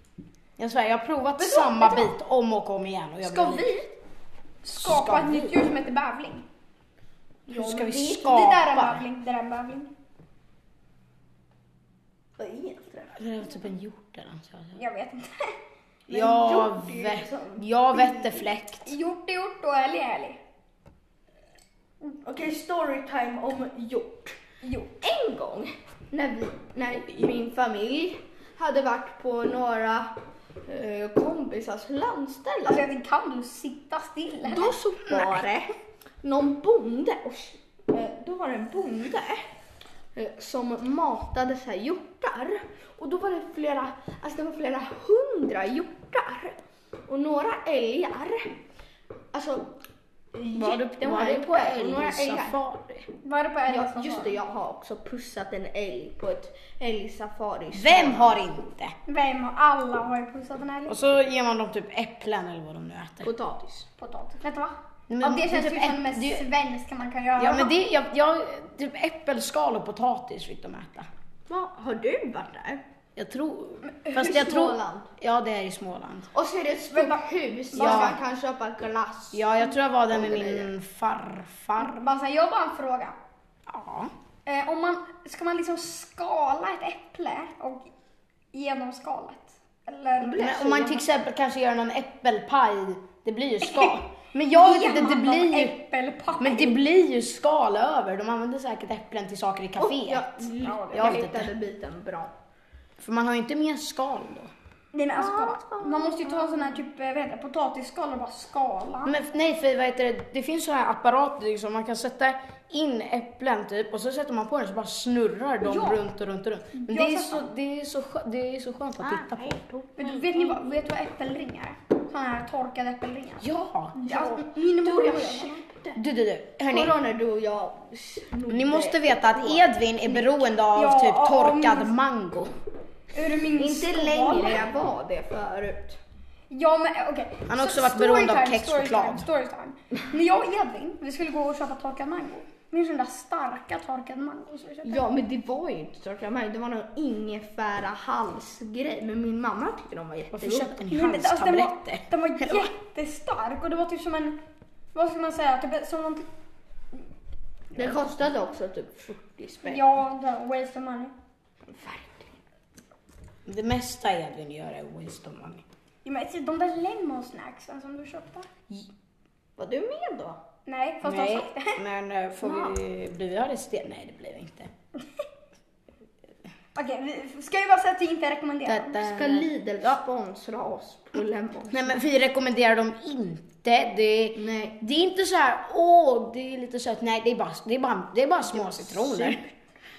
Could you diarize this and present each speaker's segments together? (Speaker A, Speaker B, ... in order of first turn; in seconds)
Speaker A: 0.6-3.7, 4.8-5.6, 7.5-9.1, 13.2-14.8, 16.1-18.9, 35.1-35.4, 50.4-53.1, 57.7-58.9, 60.9-63.3, 65.1-66.5, 67.4-71.1, 73.2-76.3, 77.7-78.2, 79.3-82.0, 83.7-84.1, 90.4-95.8, 96.4-101.5, 103.0-104.5, 109.0-119.6, 123.4-124.1, 125.9-127.0, 128.5-132.5, 137.5-139.3, 150.3-152.7, 163.5-165.6, 171.0-174.7, 178.7-179.5, 181.7-189.4
Speaker B: 1.4-2.1, 3.2-3.9, 4.6-6.5, 8.1-9.9, 14.8-15.6, 18.8-20.4, 24.6-24.9, 32.6-34.8, 53.2-54.4, 59.1-61.0, 64.0-67.8, 76.9-78.2, 81.8-83.2, 84.5-87.9, 88.5-90.6, 93.6-94.0, 94.5-96.8, 100.6-101.2, 104.9-109.1, 115.6-116.0, 116.8-117.5, 120.0-125.6, 130.7-131.9, 133.1-134.7, 136.5-145.1, 150.9-154.4, 154.9-156.3, 159.6-161.1, 166.1-168.5, 170.7-171.8, 172.4-172.7, 176.8-179.1
Speaker C: 7.5-8.4, 12.4-13.2, 16.1-17.6, 22.1-24.4, 25.0-30.1, 30.6-32.9, 34.4-35.7, 36.2-39.5, 40.1-48.5, 49.3-49.7, 50.4-52.6, 53.7-58.4, 63.2-63.9, 71.5-72.8, 74.1-75.1, 76.3-80.7, 90.2-91.0, 99.8-102.3, 105.2-106.8, 119.0-120.6, 124.1-126.0, 126.7-130.4, 133.6-136.0, 144.8-150.8, 157.7-159.9, 161.7-162.3, 169.6-170.4, 179.0-181.9, 184.3-184.8, 188.5-189.4